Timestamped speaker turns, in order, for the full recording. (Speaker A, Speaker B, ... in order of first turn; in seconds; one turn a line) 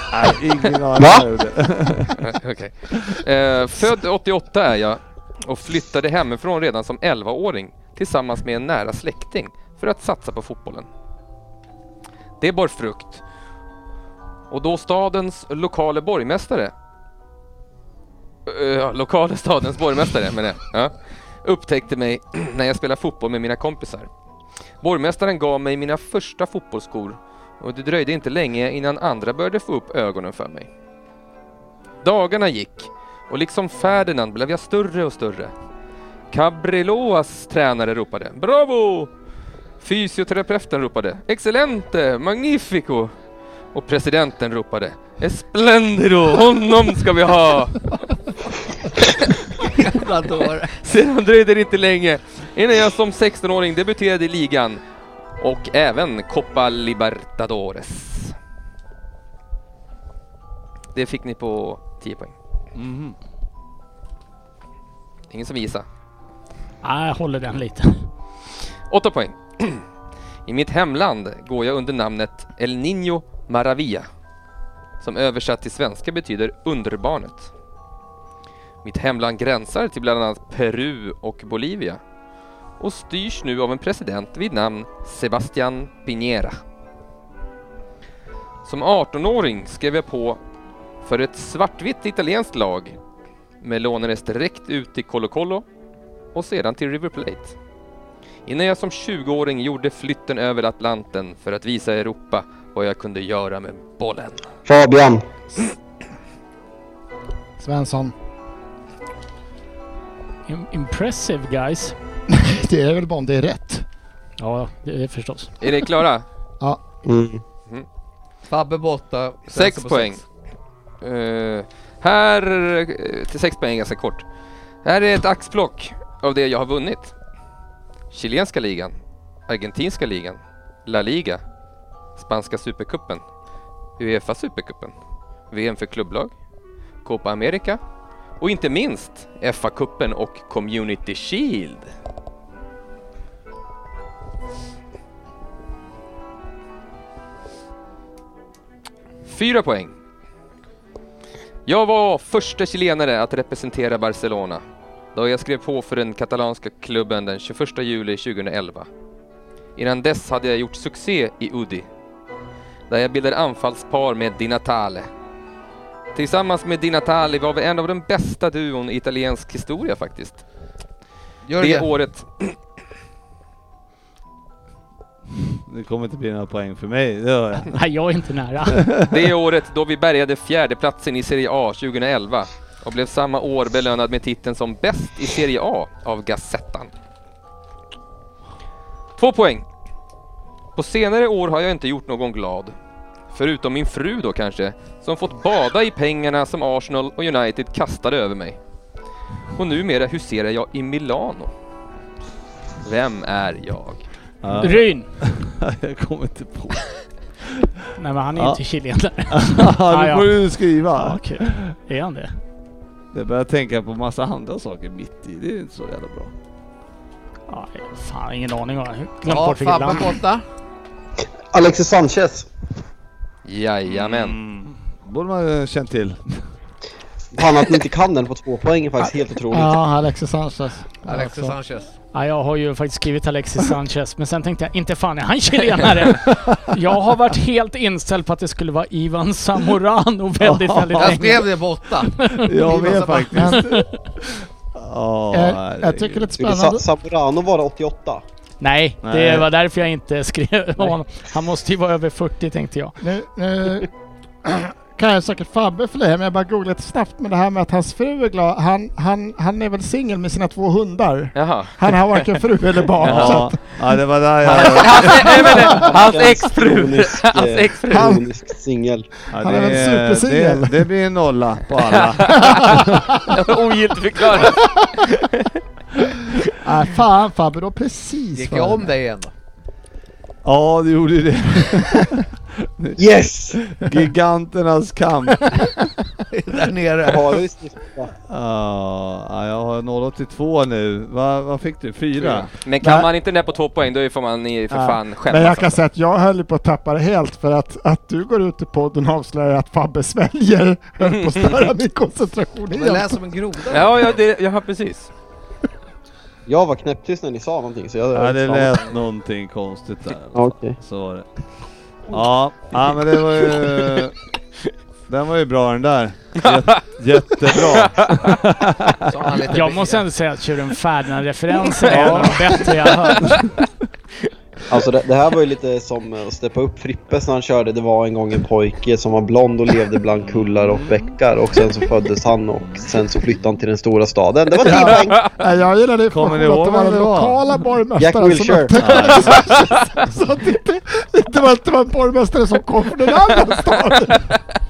Speaker A: 0.1-2.4
Speaker B: 2.2-10.9
Speaker B: 12.4-13.2
Speaker B: 14.5-16.7
Speaker B: 18.5-24.1
Speaker B: 24.8-30.7
Speaker B: 32.0-35.5
Speaker B: 36.3-39.1
Speaker B: 39.8-43.1
Speaker B: 43.7-47.8
Speaker C: 49.6-50.8
Speaker B: 50.8-54.8
Speaker B: 55.4-58.3
Speaker B: 60.9-62.3
Speaker A: 62.8-63.2
Speaker B: 65.3-65.8
Speaker D: 66.8-68.1
Speaker B: 68.9-69.8
Speaker B: 70.5-74.1
Speaker B: 75.0-77.5
Speaker B: 78.8-82.0
Speaker B: 82.8-86.6
Speaker B: 88.7-90.4
Speaker B: 91.0-93.0
Speaker B: 93.6-95.6
Speaker B: 96.3-97.5
Speaker B: 98.5-104.4
Speaker E: 104.7-105.2
Speaker F: 107.6-108.1
Speaker D: 110.5-112.0
Speaker F: 112.3-113.8
Speaker D: 114.4-115.5
Speaker B: 115.6-116.2
Speaker E: 117.0-117.4
Speaker C: 118.5-120.2
Speaker B: 119.5-120.2
Speaker B: 121.0-124.2
Speaker B: 124.8-127.1
Speaker B: 128.1-128.9
Speaker B: 129.5-131.4
Speaker B: 132.2-133.2
Speaker B: 134.0-134.9
Speaker B: 135.5-136.3
Speaker B: 137.0-137.8
Speaker B: 138.4-141.9
Speaker B: 149.2-149.9
Speaker B: 151.7-154.6
Speaker B: 155.1-158.9
Speaker B: 159.8-161.9
Speaker B: 162.9-165.1
Speaker B: 166.2-170.4
Speaker C: 171.5-171.9
Speaker B: 171.6-172.6
Speaker A: 175.7-177.8
Speaker D: 177.6-178.8
Speaker A: 178.7-179.3
Speaker B: 179.1-186.9
Speaker B: 189.2-189.7
Speaker B: 190.8-192.7
Speaker B: 193.3-198.6
Speaker B: 199.6-201.5
Speaker B: 202.8-204.0
Speaker A: 204.4-206.8
Speaker D: 204.6-205.1
Speaker D: 208.0-210.4
Speaker A: 208.3-208.6
Speaker A: 209.3-211.7
Speaker D: 210.9-212.3
Speaker A: 213.1-216.3
Speaker D: 217.5-220.2
Speaker C: 219.3-220.4
Speaker E: 221.5-222.5
Speaker B: 223.4-224.4
Speaker A: 223.9-226.2
Speaker E: 227.3-229.8
Speaker F: 229.5-231.6
Speaker C: 231.1-231.9
Speaker D: 232.1-241.5
Speaker A: 236.1-236.7
Speaker A: 240.4-241.4
Speaker C: 241.0-243.5
Speaker D: 242.2-242.5
Speaker A: 242.3-246.3
Speaker F: 243.4-243.6
Speaker D: 243.6-243.9
Speaker F: 245.3-246.8
Speaker E: 246.4-248.2
Speaker D: 248.6-253.0
Speaker A: 249.0-249.5
Speaker F: 253.0-253.9
Speaker F: 254.4-263.8
Speaker B: 261.4-262.4
Speaker B: 263.0-263.4
Speaker A: 263.0-265.9
Speaker B: 264.6-268.2
Speaker F: 265.6-265.9
Speaker E: 265.9-269.1
Speaker F: 267.9-268.2
Speaker A: 269.3-273.0
Speaker F: 269.4-270.9
Speaker B: 271.9-275.5
Speaker F: 272.3-273.3
Speaker F: 274.3-274.9
Speaker F: 276.6-278.9
Speaker C: 278.4-279.3
Speaker A: 280.4-283.0
Speaker E: 283.0-283.6
Speaker A: 283.5-285.7
Speaker C: 286.3-287.4
Speaker E: 287.1-288.1
Speaker A: 288.3-292.5
Speaker B: 292.6-295.8
Speaker F: 292.8-293.1
Speaker F: 294.7-303.2
Speaker C: 302.7-304.2
Speaker B: 303.7-305.1
Speaker E: 306.5-308.8
Speaker A: 308.1-311.3
Speaker E: 310.4-310.8
Speaker A: 312.1-314.1
Speaker A: 315.1-319.2
Speaker B: 316.4-318.3
Speaker C: 319.1-320.1
Speaker D: 319.5-323.3
Speaker B: 321.9-323.5
Speaker A: 321.9-322.7
Speaker E: 324.7-335.2
Speaker A: 330.3-331.1
Speaker A: 332.6-332.9
Speaker F: 334.6-344.2
Speaker B: 334.8-335.3
Speaker A: 336.1-337.5
Speaker E: 338.0-339.2
Speaker A: 338.7-339.5